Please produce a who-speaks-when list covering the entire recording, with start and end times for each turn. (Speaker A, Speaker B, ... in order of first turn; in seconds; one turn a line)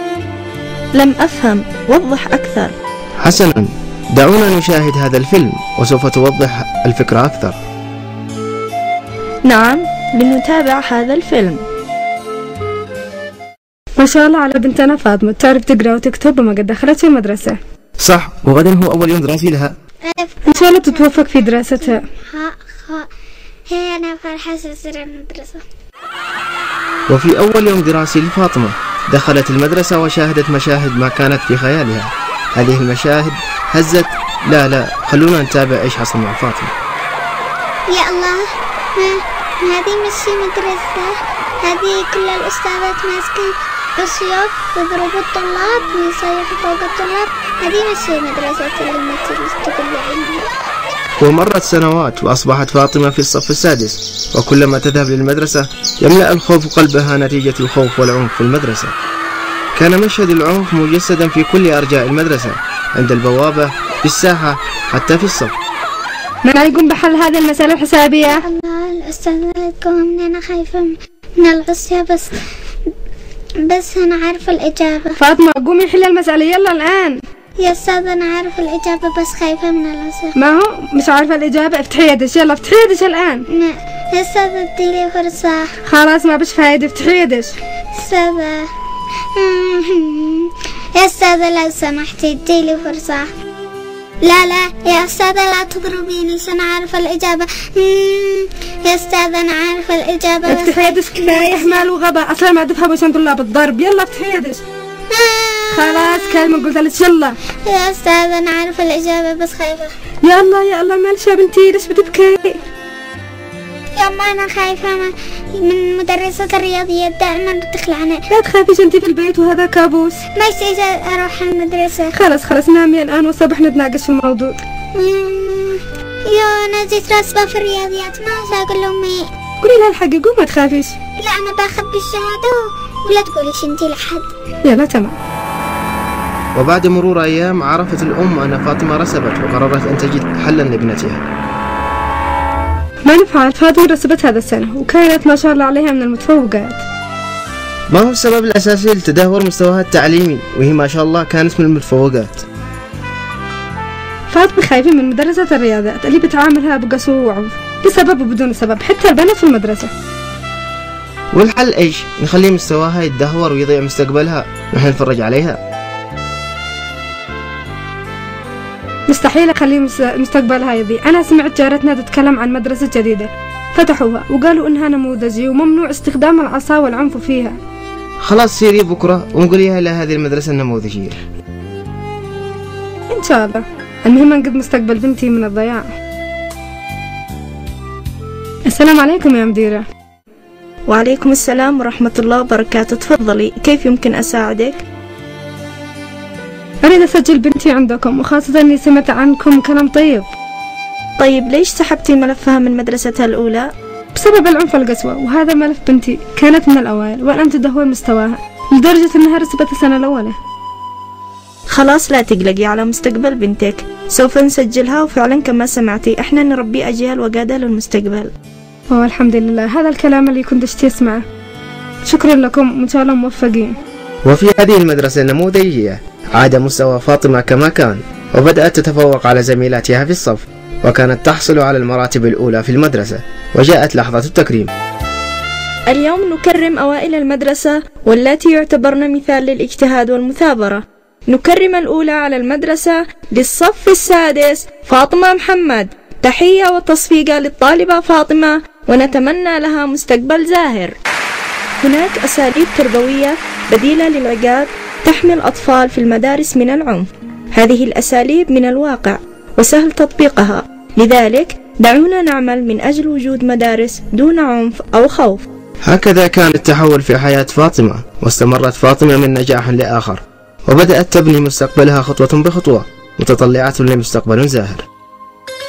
Speaker A: 0.9-2.7
Speaker B: 3.2-7.6
Speaker A: 9.4-11.6
Speaker C: 14.0-17.6
Speaker B: 18.0-19.7
Speaker D: 20.0-21.1
Speaker C: 20.4-22.1
Speaker D: 21.8-23.1
Speaker D: 23.7-25.6
Speaker B: 27.1-36.7
Speaker D: 37.9-38.4
Speaker D: 39.0-50.5
Speaker B: 51.2-58.9
Speaker B: 59.7-65.5
Speaker C: 66.4-68.4
Speaker D: 68.3-72.3
Speaker D: 73.6-75.2
Speaker C: 75.2-77.2
Speaker D: 77.6-80.3
Speaker C: 80.3-83.5
Speaker D: 83.5-85.7
Speaker C: 85.8-87.5
Speaker D: 88.0-88.7
Speaker D: 89.3-93.3
Speaker D: 94.2-101.8
Speaker C: 100.4-104.6
Speaker D: 105.1-106.5
Speaker C: 105.7-107.4
Speaker D: 107.6-109.9
Speaker C: 110.2-112.6
Speaker D: 114.0-118.2
Speaker C: 118.3-120.2
Speaker D: 120.3-122.1
Speaker C: 122.1-124.6
Speaker D: 124.9-129.2
Speaker C: 129.6-130.9
Speaker D: 131.2-134.3
Speaker C: 134.6-135.1
Speaker B: 136.5-141.2
Speaker C: 143.1-146.8
Speaker B: 147.9-152.4
Speaker C: 154.3-159.9
Speaker B: 161.3-165.6
Speaker C: 169.1-177.6
Speaker B: 178.2-181.2
Speaker C: 183.1-185.9
Speaker C: 188.7-189.8
Speaker A: 190.9-194.8
Speaker C: 196.8-200.3
Speaker A: 201.2-203.7
Speaker C: 204.1-210.4
Speaker A: 211.7-218.3
Speaker C: 218.9-221.2
Speaker C: 222.0-223.8
Speaker B: 224.2-234.7
Speaker A: 235.9-250.9
Speaker A: 251.8-265.4
Speaker B: 265.8-274.8